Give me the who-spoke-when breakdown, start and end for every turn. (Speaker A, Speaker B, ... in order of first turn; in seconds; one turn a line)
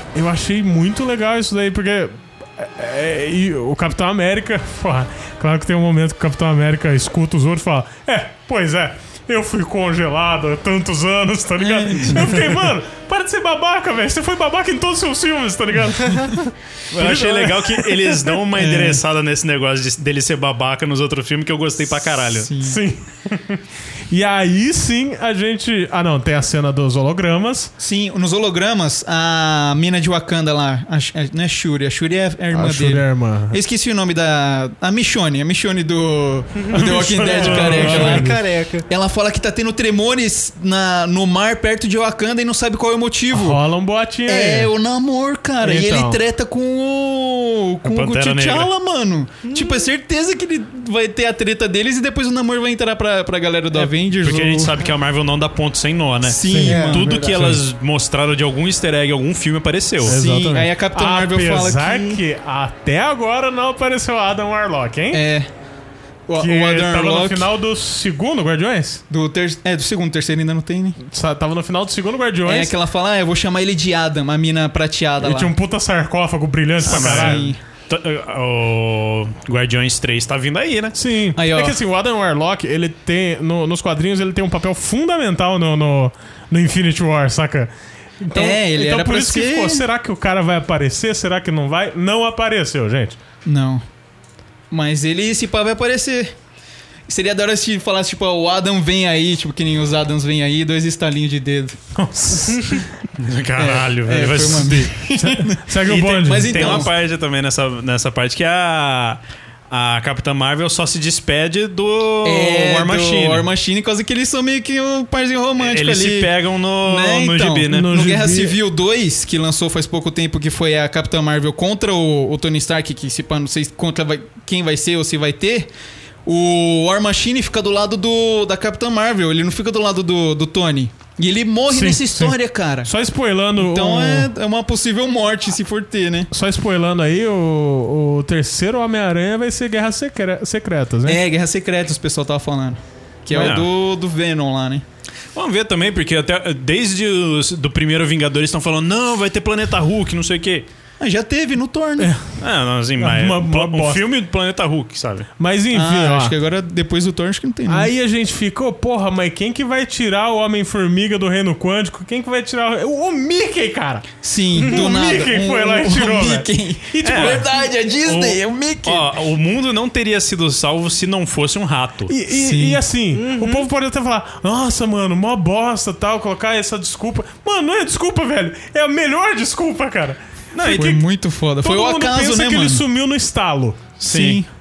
Speaker A: 0.1-18.3
Speaker B: 11.6-12.5
Speaker C: 16.9-22.5
Speaker B: 18.5-19.0
Speaker B: 22.2-22.8
Speaker A: 22.6-27.7
Speaker B: 27.8-38.3
Speaker A: 32.5-33.6
Speaker A: 36.7-38.4
Speaker D: 37.2-38.9
Speaker B: 38.9-43.6
Speaker A: 43.3-44.7
Speaker B: 44.2-54.8
Speaker A: 45.6-46.2
Speaker C: 47.8-48.7
Speaker D: 49.4-49.9
Speaker C: 54.2-60.2
Speaker B: 56.2-57.1
Speaker A: 56.4-56.8
Speaker D: 56.6-57.5
Speaker A: 57.3-57.6
Speaker B: 60.0-62.2
Speaker A: 60.0-65.2
Speaker B: 65.1-65.5
Speaker B: 66.3-67.5
Speaker A: 66.4-69.0
Speaker B: 69.1-71.0
Speaker A: 71.0-72.7
Speaker B: 72.4-75.5
Speaker A: 75.2-77.5
Speaker B: 76.8-77.6
Speaker C: 76.8-81.0
Speaker A: 80.9-93.2
Speaker B: 81.3-81.8
Speaker B: 88.3-89.8
Speaker B: 93.4-93.8
Speaker B: 94.7-96.3
Speaker B: 97.1-101.8
Speaker A: 102.0-102.8
Speaker C: 103.2-104.9
Speaker B: 103.5-106.9
Speaker A: 105.1-106.8
Speaker C: 105.8-113.5
Speaker B: 112.2-125.7
Speaker C: 115.6-118.1
Speaker A: 117.7-118.5
Speaker B: 126.2-132.9
Speaker A: 131.7-134.3
Speaker B: 133.6-136.3
Speaker A: 136.3-141.2
Speaker B: 141.0-144.8
Speaker C: 143.3-143.7
Speaker C: 145.3-150.7
Speaker B: 151.0-152.1
Speaker A: 152.0-152.3
Speaker C: 152.4-155.3
Speaker A: 153.0-154.0
Speaker A: 155.4-156.3
Speaker B: 155.7-157.9
Speaker A: 157.7-167.4
Speaker B: 164.2-169.1
Speaker C: 167.0-167.4
Speaker C: 168.0-172.1
Speaker A: 172.1-181.0
Speaker B: 172.3-172.8
Speaker D: 173.2-173.7
Speaker C: 180.5-181.0
Speaker B: 180.7-182.8
Speaker A: 181.6-183.9
Speaker C: 184.0-184.4
Speaker B: 184.0-184.5